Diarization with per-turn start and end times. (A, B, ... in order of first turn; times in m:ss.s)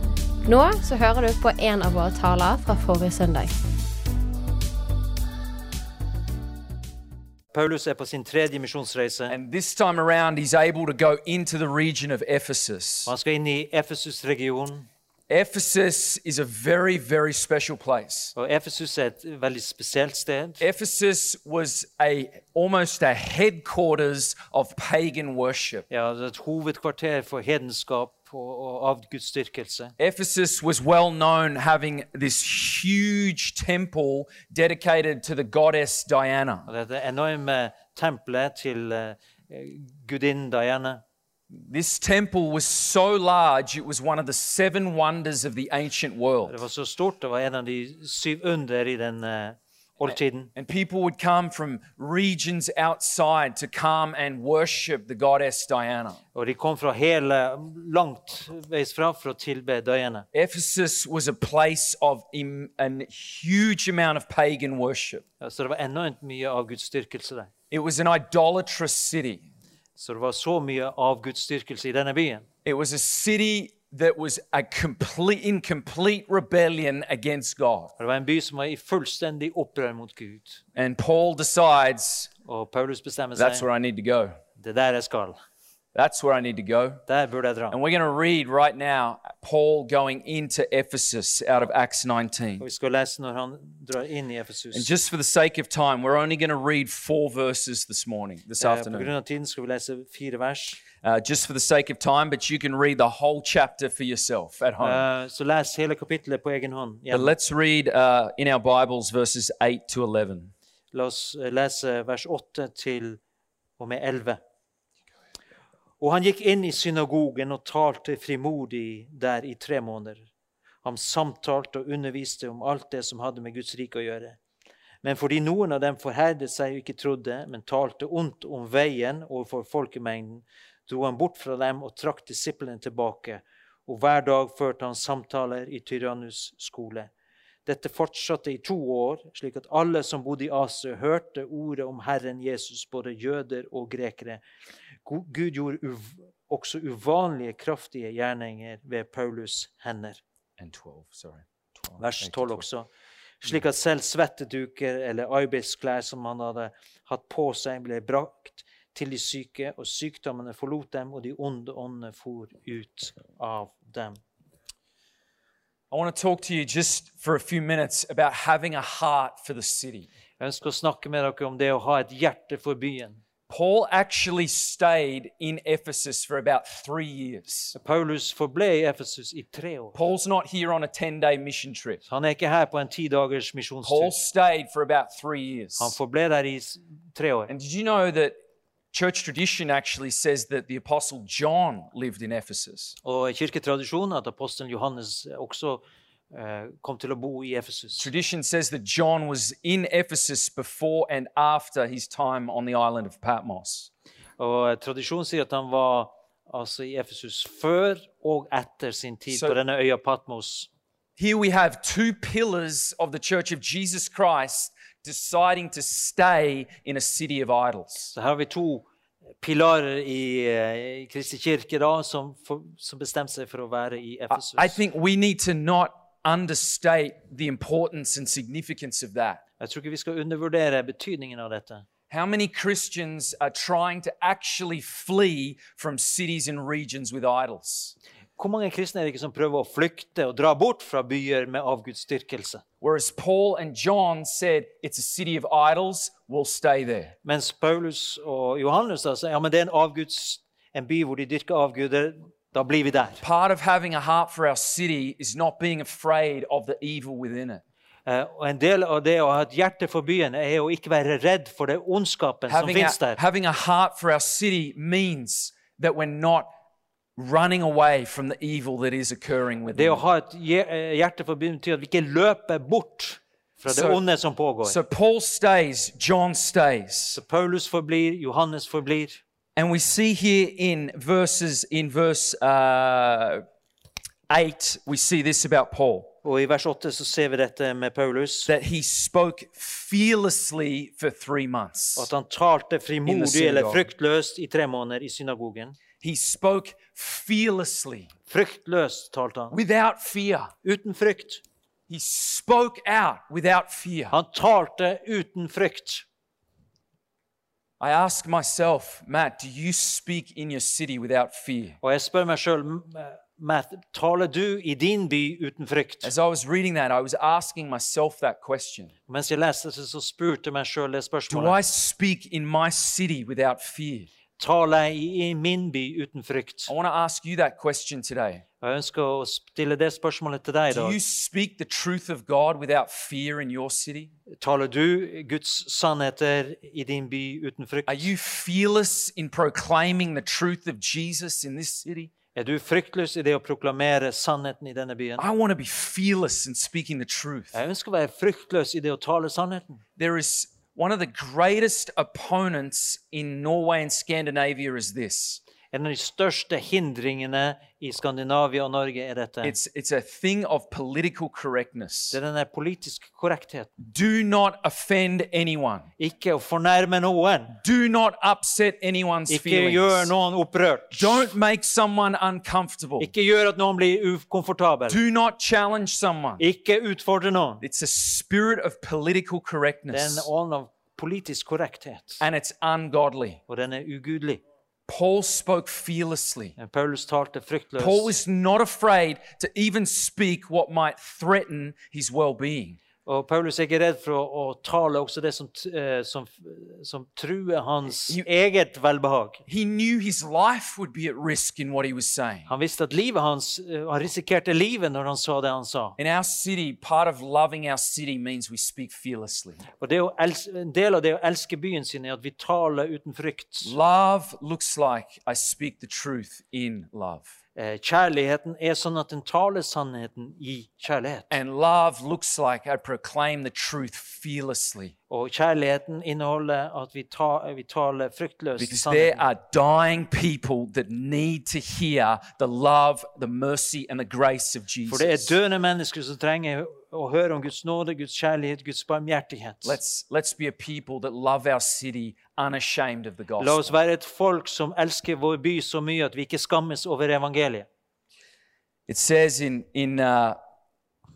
0:00.4-0:03.5 A
0:07.5-0:09.4 B
0:09.3-0:13.1 C
0:13.0-0:14.9 B
0:15.3-0:18.3 C
0:18.3-0:20.6 B
0:20.6-0:25.8 C
0:25.9-0:29.9 B
0:30.0-0:36.7 C
0:36.7-0:41.0 B
0:41.5-0:46.6 C
0:46.4-0:50.5 B
0:50.6-0:56.2 C
0:56.3-1:00.3 B
1:00.3-1:05.2 C
1:05.4-1:07.5 B
1:07.7-1:09.5 C
1:10.0-1:12.5 B
1:12.6-1:17.9 C
1:18.0-1:20.6 B
1:20.7-1:22.3 C
1:22.4-1:23.6 B
1:23.3-1:24.4 C
1:24.6-1:25.4 B
1:25.9-1:27.0 C
1:27.1-1:27.8 B
1:27.7-1:32.6 C
1:32.6-1:34.9 B
1:34.7-1:39.1 C
1:38.6-1:40.8 B
1:41.0-1:45.0 C
1:44.8-1:47.3 B
1:47.1-1:50.5 C
1:50.9-1:53.2 B
1:53.8-1:54.4 B
1:56.0-2:00.3 B
2:00.8-2:04.4 B
2:05.0-2:17.1 B
2:17.6-2:24.4 B
2:25.0-2:30.2 B
2:30.6-2:32.6 C
2:32.0-2:32.9 B
2:33.4-2:44.2 B
2:45.9-2:50.1 C
2:50.4-2:53.2 B
2:53.5-2:57.7 C
2:57.7-3:00.0 B
2:59.9-3:02.0 C
3:02.0-3:04.2 B
3:03.8-3:06.0 C
3:05.8-3:07.5 B
3:07.5-3:08.4 C
3:08.9-3:13.0 C
3:13.0-3:18.1 B
3:18.0-3:23.9 C
3:24.4-3:30.7 B
3:29.3-3:29.6 C
3:31.2-3:38.1 C
3:38.1-3:38.8 B
3:39.4-3:44.8 B
3:44.3-3:49.4 C
3:49.6-3:51.8 B
3:52.1-3:57.9 C
3:58.4-4:02.6 B
4:02.8-4:07.2 C
4:07.2-4:13.2 B
4:13.2-4:17.6 C
4:18.0-4:23.2 B
4:22.5-4:26.5 C
4:27.2-4:30.0 C
4:29.7-4:34.8 B
4:33.7-4:34.0 C
4:34.6-4:37.2 C
4:37.1-4:39.2 B
4:39.6-4:43.4 C
4:44.3-4:46.1 C
4:46.2-4:48.5 B
4:48.4-4:52.1 C
4:52.0-4:55.8 B
4:53.0-4:53.9 C
4:56.0-4:58.1 C
4:58.3-4:59.6 B
4:59.5-5:00.5 C
5:00.6-5:01.4 B
5:01.9-5:04.1 C
5:04.1-5:06.0 B
5:07.8-5:11.8 C
5:11.8-5:16.1 B
5:16.0-5:18.9 C
5:19.1-5:21.6 B
5:21.3-5:24.1 C
5:24.4-5:26.7 B
5:26.7-5:28.4 C
5:28.6-5:31.0 B
5:30.7-5:34.1 C
5:34.3-5:38.1 B
5:37.8-5:42.1 C
5:42.3-5:45.2 B
5:45.2-5:47.6 C
5:47.5-5:49.8 B
5:50.0-5:55.4 C
5:55.7-5:59.6 B
5:59.4-6:02.2 C
6:02.1-6:03.7 B
6:03.8-6:05.9 C
6:06.0-6:07.6 B
6:07.6-6:10.1 C
6:09.3-6:11.3 B
6:10.9-6:13.1 C
6:13.0-6:15.0 B
6:14.9-6:16.4 C
6:16.4-6:17.6 B
6:17.6-6:20.3 C
6:19.9-6:22.2 B
6:22.2-6:23.4 C
6:23.5-6:24.4 B
6:24.9-6:26.5 C
6:26.6-6:28.1 B
6:27.8-6:32.8 C
6:33.0-6:39.4 B
6:39.5-6:42.5 C
6:42.5-6:46.0 B
6:46.0-6:49.6 C
6:49.8-6:53.8 B
6:53.6-6:57.3 C
6:57.6-7:01.4 B
7:01.3-7:04.9 C
7:05.1-7:09.2 B
7:08.6-7:15.4 C
7:14.9-7:19.8 B
7:19.6-7:23.7 C
7:23.4-7:27.7 B
7:28.9-7:30.4 C